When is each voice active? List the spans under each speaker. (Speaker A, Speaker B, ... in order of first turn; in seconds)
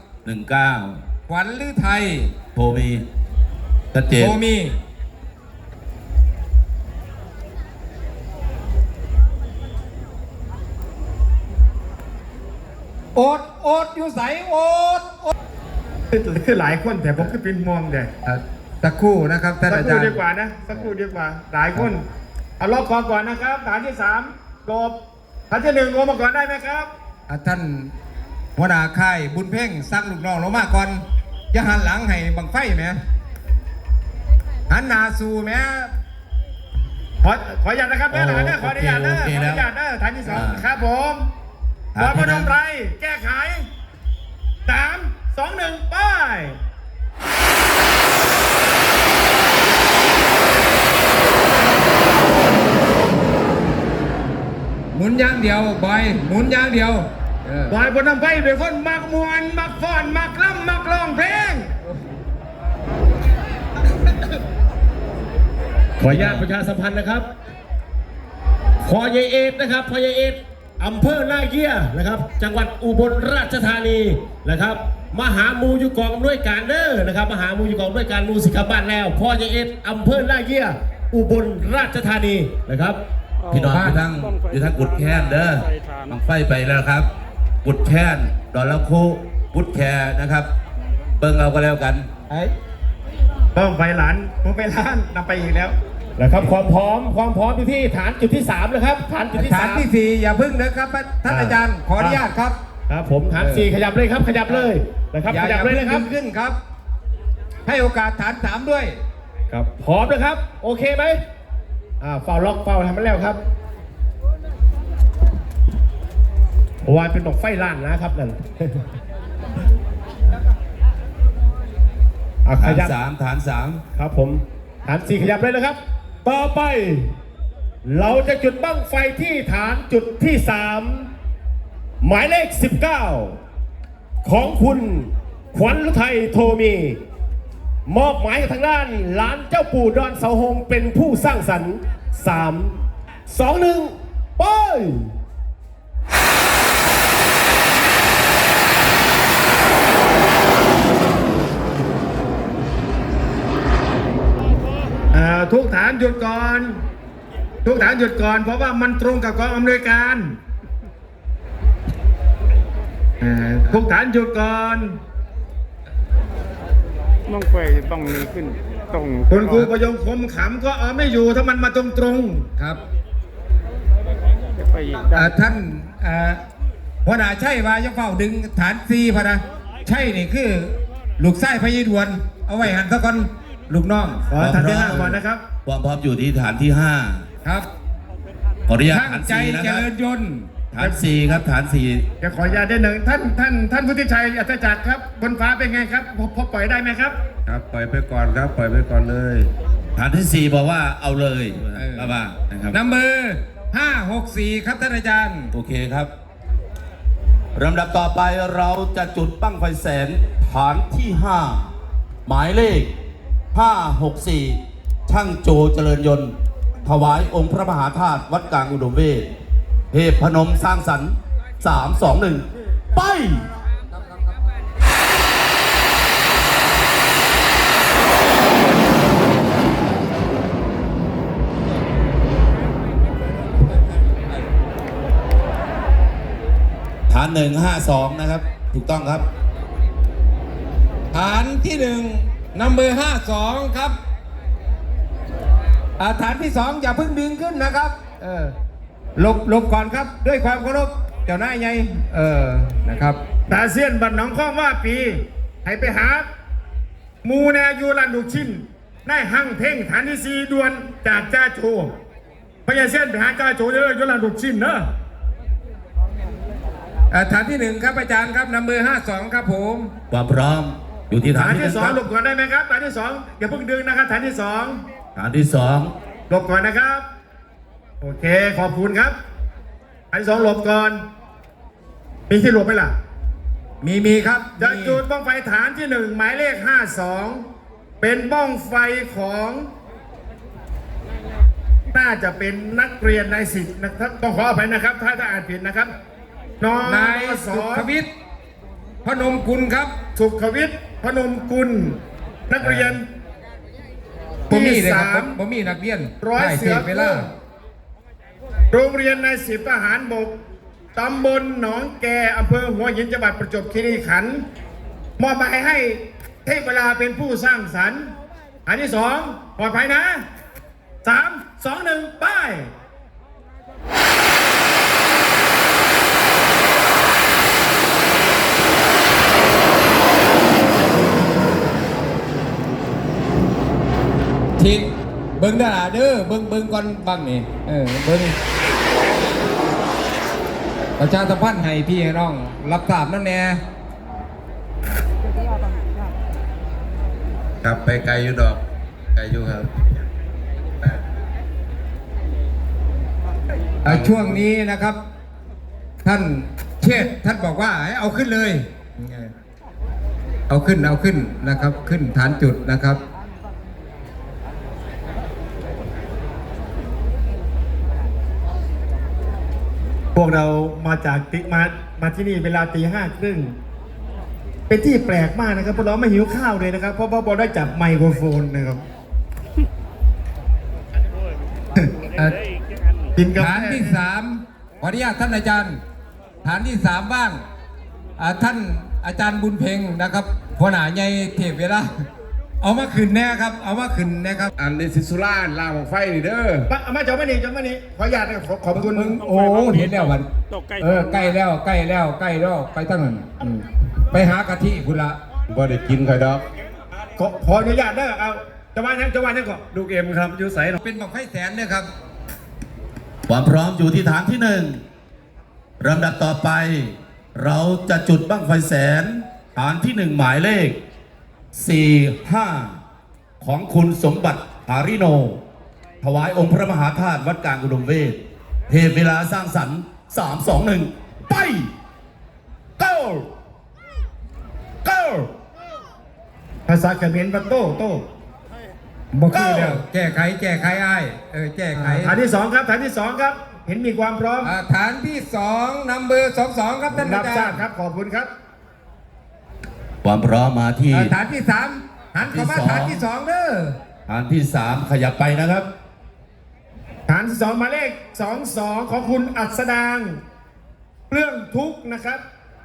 Speaker A: 0.2-1.0, 2.5-3.0, 3.9-4.4, 38.1-39.7, 40.3-40.6, 42.0-42.5, 83.5-87.1, 87.6-90.5, 91.2-92.1, 122.6-123.8, 184.4-187.2, 188.7-189.9, 190.7-192.1, 197.5-202.8, 205.5-206.1, 207.6-211.7, 212.3-212.9, 213.5-219.3, 219.9-223.4, 237.1-239.3, 270.1-272.0, 275.1-275.9, 347.7-348.5, 349.2-349.6, 353.9-354.4, 394.6-396.5, 405.5-406.4, 413.3-414.8, 415.8-420.8, 421.5-422.8, 423.4-425.4, 426.0-431.7, 450.0-451.1, 452.2-453.0, 454.1-455.7
Speaker B: 1.3-2.3, 4.2-4.8, 13.2-15.3, 18.3-20.2, 27.3-27.9, 28.6-33.0, 34.7-35.9, 54.9-57.8, 66.2-66.5, 99.3-102.6, 103.4-103.7, 105.3-106.6, 107.7-109.0, 175.1-176.4, 177.1-184.3, 188.9-190.5, 201.8-202.1, 202.7-205.5, 223.9-224.3, 233.6-234.5, 241.1-244.0, 246.0-248.5, 249.2-253.2, 267.1-269.9, 283.8-285.0, 296.9-298.1, 299.0-299.9, 304.5-307.3, 334.6-338.4, 341.0-343.6, 353.8-355.0, 356.0-359.3, 360.5-363.0, 382.1-382.4, 383.4-385.8, 386.4-387.4, 388.2-391.9, 392.6-394.5, 398.7-400.3, 400.8-405.2, 410.8-411.9, 439.1-442.1, 444.4-447.6, 450.9-453.8
Speaker C: 16.1-18.1, 19.7-22.0, 22.6-25.0, 25.5-26.9, 37.2-41.3, 42.0-43.7, 44.7-46.6, 57.7-61.7, 93.5-95.8, 155.1-156.8, 157.6-160.4, 163.6-165.0, 169.3-172.5, 184.3-185.4, 192.2-197.2, 253.5-256.3, 257.2-261.9, 262.7-264.9, 271.4-274.8, 276.3-277.1, 278.0-279.2, 280.1-281.0, 282.3-282.9, 284.6-287.4, 288.0-289.7, 291.9-295.9, 296.6-297.9, 300.1-303.1, 304.5-305.4, 306.2-307.3, 308.7-310.4, 310.9-314.5, 315.2-318.1, 318.7-320.2, 321.0-322.7, 370.1-373.6, 374.7-378.8, 383.2-384.0, 396.7-399.3, 407.2-409.8, 436.7-438.1, 439.3-439.8, 441.8-444.5, 446.9-448.3, 457.1-460.2, 461.1-462.2
Speaker D: 66.0-67.3, 68.8-83.0, 96.2-99.9, 101.3-102.2, 102.9-106.1, 109.5-111.2, 112.0-113.4, 116.8-118.8, 122.5-122.9, 123.9-127.2, 127.8-131.1, 132.0-133.4, 134.2-137.0, 137.9-145.1, 409.8-410.8, 432.8-433.3, 434.9-435.3
Speaker E: 83.4-86.2, 167.3-169.7, 174.6-175.3, 399.4-401.2
Speaker F: 347.6-348.6, 349.2-349.6, 394.6-396.7, 405.5-406.4